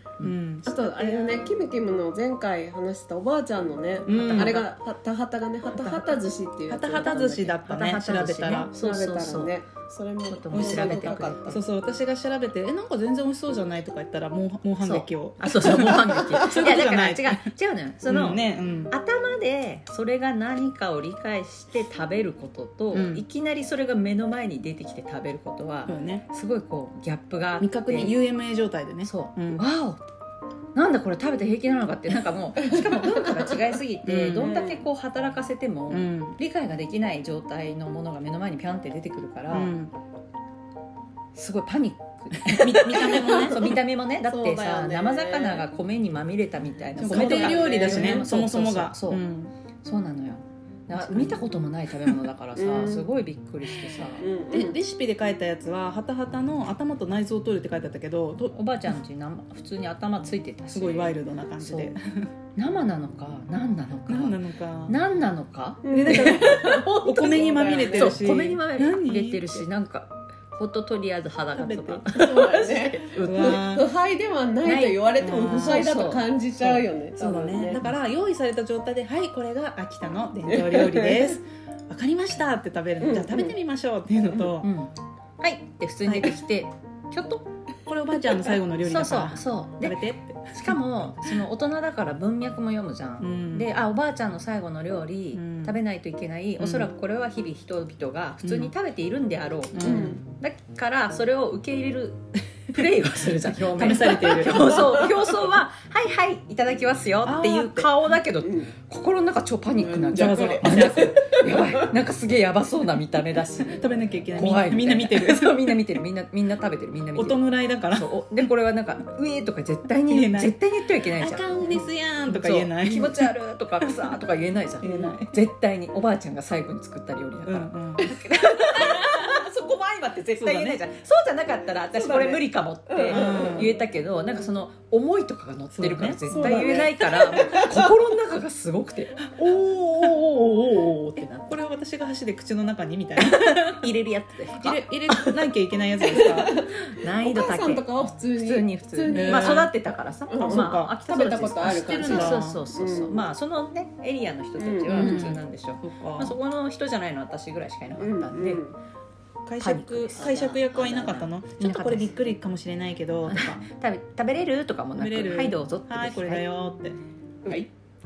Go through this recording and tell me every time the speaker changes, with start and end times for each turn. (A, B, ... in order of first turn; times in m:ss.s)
0:00.2-0:01.5 A
0:00.6-0:07.6 B
0:04.0-0:04.6 A
0:04.1-0:04.6 C
0:05.8-0:06.1 A
0:06.7-0:08.7 A
0:07.6-0:09.5 C
0:08.7-0:11.6 B
0:10.3-0:11.6 C
0:10.5-0:17.5 A
0:14.8-0:28.1 C
0:18.1-0:18.9 A
0:22.9-0:23.2 A
0:25.9-0:26.2 A
0:27.6-0:29.6 A
0:29.0-0:30.0 C
0:30.7-0:39.8 C
0:32.7-0:33.7 B
0:34.0-0:34.6 A
0:34.4-0:34.8 B
0:35.9-0:36.4 A
0:39.5-0:39.9 A
0:41.3-0:49.2 C
0:42.4-0:43.8 A
0:43.1-0:43.6 B
0:44.3-0:45.7 B
0:47.0-0:49.5 A
0:47.0-0:48.3 B
0:49.8-0:54.3 C
0:50.9-0:52.2 A
0:52.6-0:53.1 B
0:53.9-0:54.7 B
0:54.5-0:59.0 A
0:58.5-1:01.9 C
1:00.7-1:02.3 A
1:02.6-1:06.6 C
1:04.1-1:05.0 A
1:05.8-1:08.2 B
1:05.9-1:09.6 A
1:07.9-1:13.7 C
1:11.5-1:12.1 A
1:12.1-1:17.8 B
1:13.2-1:13.9 A
1:14.6-1:16.2 C
1:15.2-1:24.7 A
1:20.5-1:21.3 B
1:23.0-1:23.5 B
1:24.6-1:27.4 C
1:26.0-1:26.4 A
1:27.9-1:30.8 A
1:28.8-2:19.3 C
1:33.2-1:33.7 A
1:35.3-1:35.8 A
1:36.6-1:36.9 A
1:38.4-1:38.7 A
1:39.7-1:40.2 A
1:39.8-1:40.2 B
1:43.2-1:44.8 A
1:44.8-1:45.1 B
1:47.2-1:47.9 A
1:48.4-1:48.7 B
1:49.8-1:51.9 B
1:50.1-1:51.4 A
1:53.7-1:56.0 A
1:57.1-1:58.5 A
2:00.1-2:04.2 A
2:04.8-2:05.4 A
2:04.8-2:05.1 B
2:07.4-2:08.1 A
2:10.4-2:10.8 A
2:11.9-2:13.6 B
2:13.1-2:13.7 A
2:15.7-2:16.9 A
2:16.3-2:17.9 B
2:19.2-2:23.9 A
2:23.2-2:25.3 C
2:24.5-2:26.6 A
2:26.0-2:29.8 B
2:26.7-2:38.6 C
2:29.1-2:29.7 A
2:30.3-2:33.2 B
2:30.4-2:32.6 A
2:34.6-2:35.4 B
2:34.9-2:36.4 A
2:38.0-2:38.8 B
2:39.4-2:43.7 A
2:39.6-2:42.1 C
2:40.2-2:40.7 B
2:43.3-2:46.4 C
2:45.0-2:47.6 A